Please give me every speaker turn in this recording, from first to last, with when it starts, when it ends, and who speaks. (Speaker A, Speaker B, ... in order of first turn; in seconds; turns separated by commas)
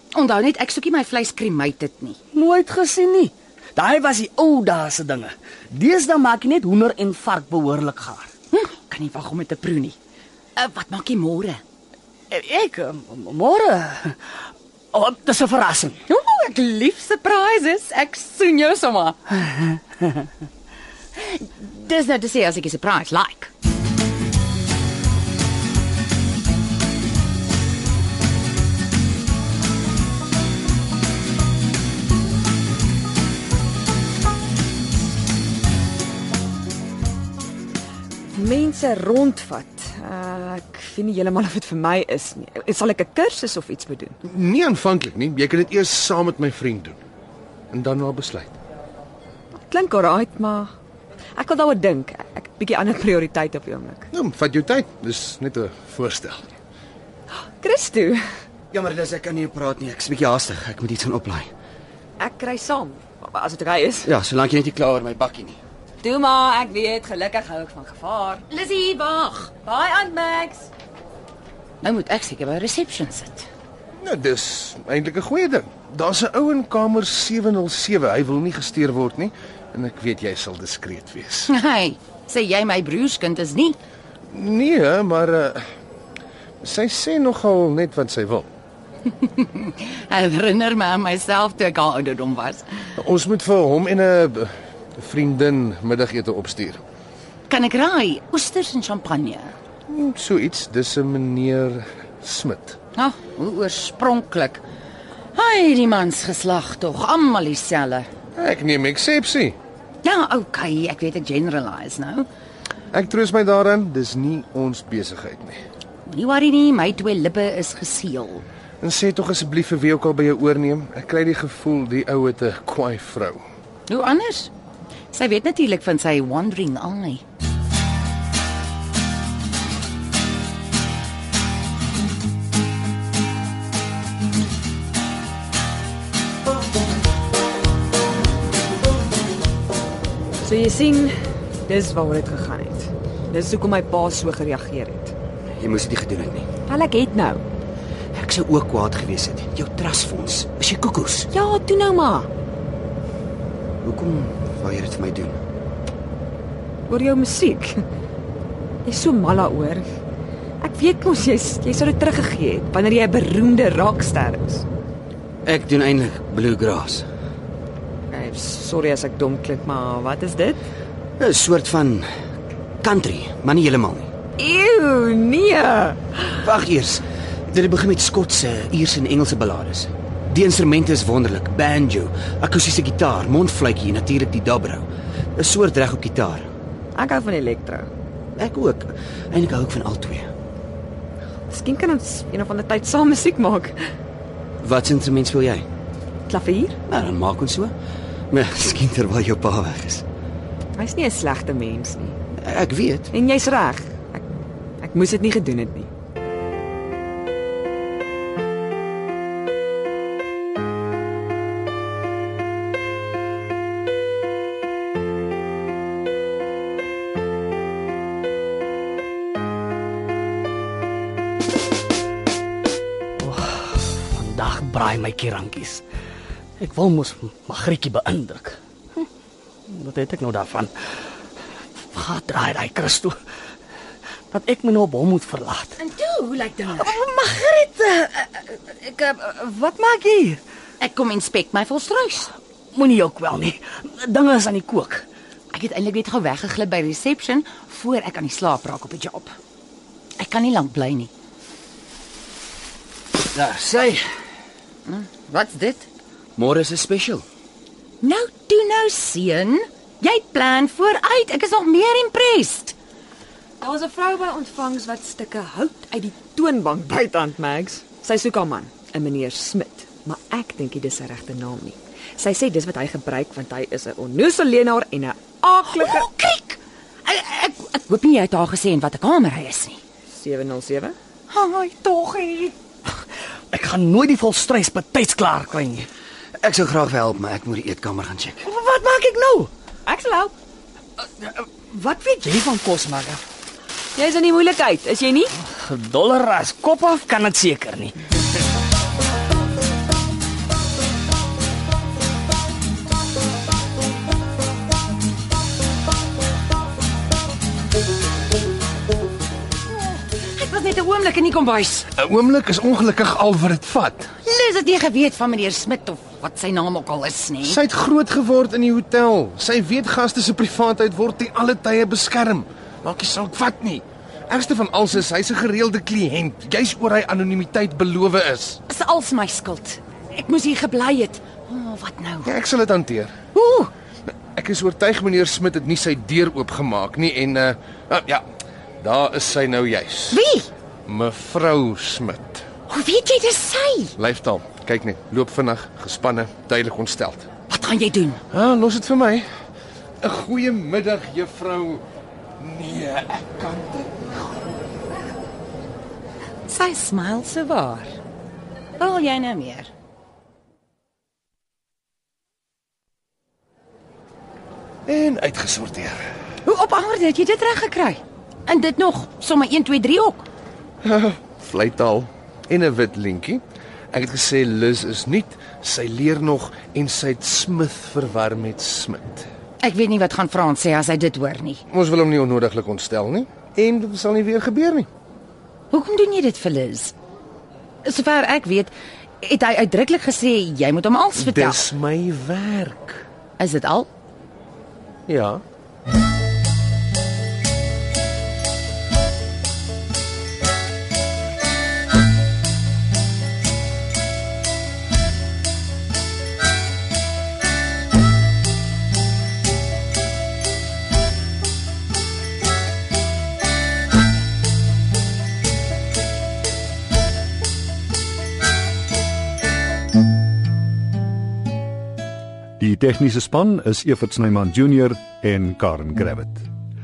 Speaker A: 0.1-2.2, Speaker B: 2.3-8.3, Speaker A: 8.5-10.0, Speaker A: 10.6-11.6, Speaker B: 12.3-14.2, Speaker B: 14.9-16.0, Speaker A: 16.1-19.2, Speaker A: 21.2-23.5, Speaker C: 38.3-44.2, Speaker D: 44.2-47.0, Speaker D: 47.7-48.6, Speaker C: 49.5-50.7, Speaker C: 51.4-54.1, Speaker D: 54.1-56.6, Speaker C: 57.6-58.2, Speaker E: 58.7-61.5, Speaker C: 62.2-64.1, Speaker E: 64.0-65.6, Speaker C: 66.0-68.5, Speaker A: 68.5-69.5, Speaker C: 69.6-70.7, Speaker A: 71.8-73.5, Speaker D: 74.0-81.5, Speaker A: 81.5-83.8, Speaker D: 84.3-85.7, Speaker D: 86.6-88.5, Speaker A: 89.2-92.8, Speaker D: 93.0-96.8, Speaker A: 97.5-99.5, Speaker D: 99.9-102.8, Speaker A: 103.0-104.6, Speaker A: 105.3-108.1, Speaker D: 108.3-109.6, Speaker A: 110.0-112.3, Speaker D: 112.9-115.6, Speaker A: 116.1-118.4, Speaker D: 118.8-123.4, Speaker A: 123.9-124.5, Speaker A: 125.1-127.2, Speaker C: 140.4-145.1, Speaker E: 145.6-146.5, Speaker C: 146.7-147.4, Speaker E: 148.1-151.3, Speaker C: 151.3-152.3, Speaker E: 153.8-155.4, Speaker C: 156.9-157.8, Speaker C: 158.8-159.8, Speaker C: 160.6-164.7, Speaker E: 165.4-167.1, Speaker C: 168.1-170.6, Speaker E: 171.2-172.1, Speaker E: 172.8-174.1, Speaker C: 174.4-176.2, Speaker E: 176.4-186.5, Speaker C: 186.9-187.9, Speaker E: 188.4-190.3, Speaker C: 191.5-193.8, Speaker E: 194.6-195.7, Speaker C: 196.3-196.8, Speaker E: 196.9-197.7, Speaker E: 198.3-200.1, Speaker C: 200.8-202.2, Speaker E: 202.4-203.1, Speaker C: 203.1-204.2, Speaker C: 204.8-205.9, Speaker B: 223.2-225.8, Speaker B: 226.6-229.1, Speaker B: 229.7-230.7, Speaker B: 231.9-233.2, Speaker B: 234.3-235.8, Speaker A: 235.8-236.9, Speaker B: 236.8-240.4, Speaker A: 240.8-242.3, Speaker B: 242.7-245.1, Speaker A: 245.5-249.3, Speaker A: 250.2-251.1, Speaker E: 253.3-254.1, Speaker A: 254.9-255.9, Speaker E: 256.4-257.2, Speaker A: 258.0-262.8, Speaker C: 263.6-276.1, Speaker A: 275.7-279.8, Speaker C: 280.1-281.0, Speaker A: 281.3-282.6, Speaker B: 283.5-285.9, Speaker E: 286.4-288.4, Speaker B: 288.4-289.5, Speaker C: 289.9-290.3, Speaker B: 291.2-293.2, Speaker C: 293.9-295.3, Speaker B: 295.4-298.0, Speaker A: 309.7-311.9, Speaker D: 311.9-314.2, Speaker A: 314.2-317.6, Speaker D: 317.4-328.6, Speaker A: 328.7-332.3, Speaker D: 332.2-333.3, Speaker A: 333.3-333.7, Speaker D: 334.4-338.2, Speaker D: 338.8-340.2, Speaker A: 340.1-340.5, Speaker D: 340.9-342.5, Speaker A: 342.7-343.9, Speaker D: 344.0-347.4, Speaker A: 347.5-348.2, Speaker D: 348.3-349.3, Speaker D: 350.0-351.8, Speaker D: 352.4-354.1, Speaker A: 356.5-358.0, Speaker A: 358.8-359.7, Speaker D: 364.9-366.1, Speaker A: 366.4-370.3, Speaker D: 370.8-379.3, Speaker A: 379.6-381.6, Speaker D: 381.7-384.9, Speaker A: 385.7-386.9, Speaker A: 387.9-391.6, Speaker D: 391.2-393.1, Speaker A: 393.4-393.9, Speaker D: 395.1-395.4, Speaker F: 422.6-426.5